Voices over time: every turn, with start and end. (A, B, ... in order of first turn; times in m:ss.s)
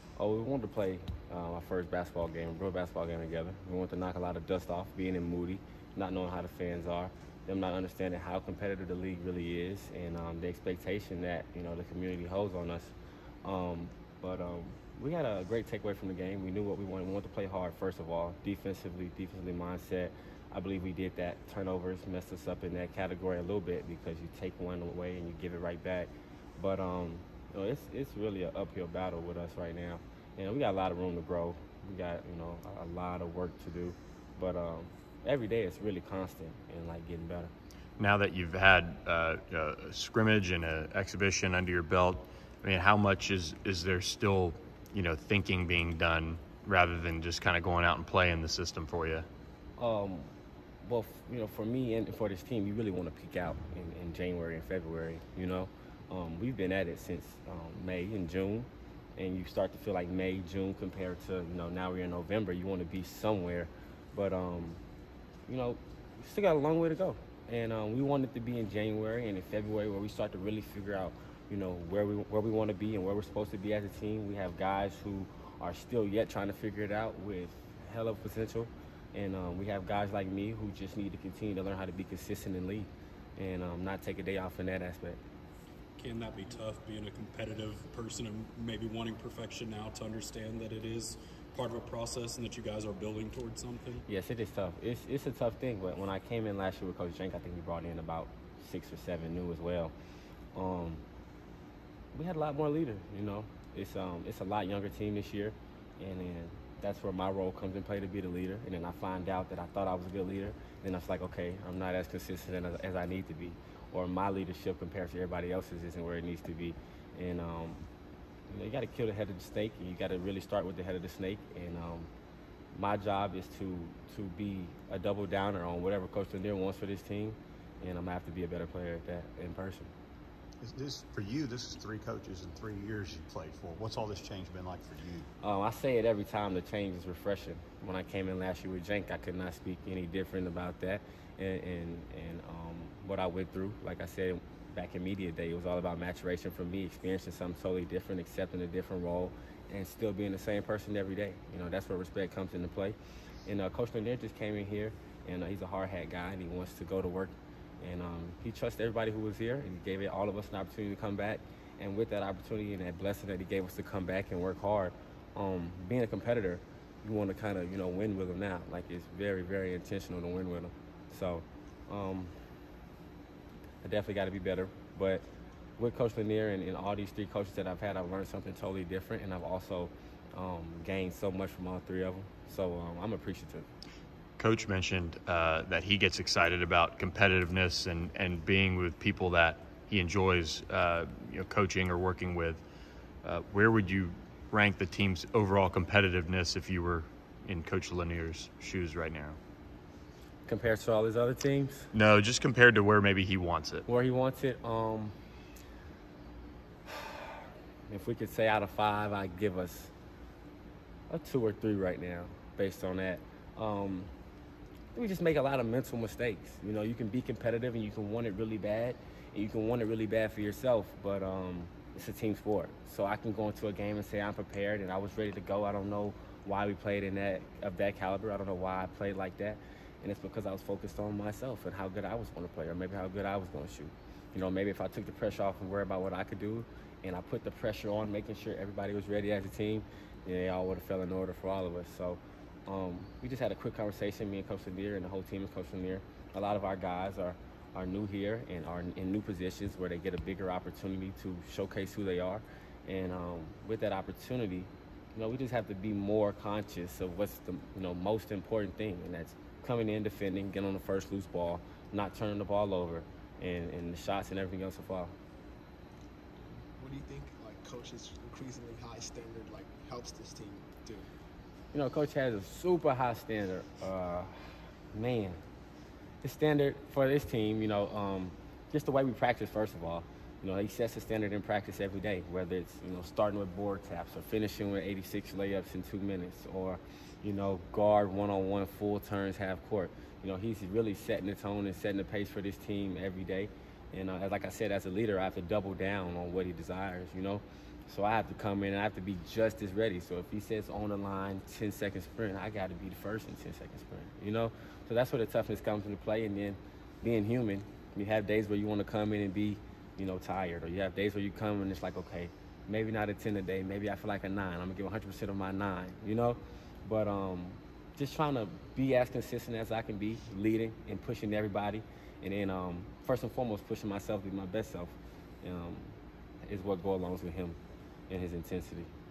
0:00.2-0:37.5 A
0:38.0-0:49.3 B
0:49.8-0:50.3 A
0:50.8-1:04.8 A
1:05.5-1:25.2 A
1:26.0-1:34.0 C
1:34.1-1:39.9 A
1:40.6-1:41.0 A
1:42.1-1:57.8 A
1:58.5-2:02.1 A
2:02.7-2:09.9 A
2:10.6-2:15.3 D
2:15.4-2:52.3 A
2:53.8-2:55.2 A
2:55.8-3:03.7 A
3:04.4-3:12.6 B
3:13.2-3:19.4 B
3:20.5-3:21.9 A
3:21.9-3:23.8 B
3:23.9-3:25.2 A
3:27.9-3:29.9 A
3:31.1-3:34.1 A
3:34.9-4:25.1 A
4:26.5-4:31.1 E
4:31.7-4:34.4 A
4:34.9-4:35.4 A
4:36.2-5:25.9 A
5:26.4-5:27.6 A
5:28.1-5:28.9 A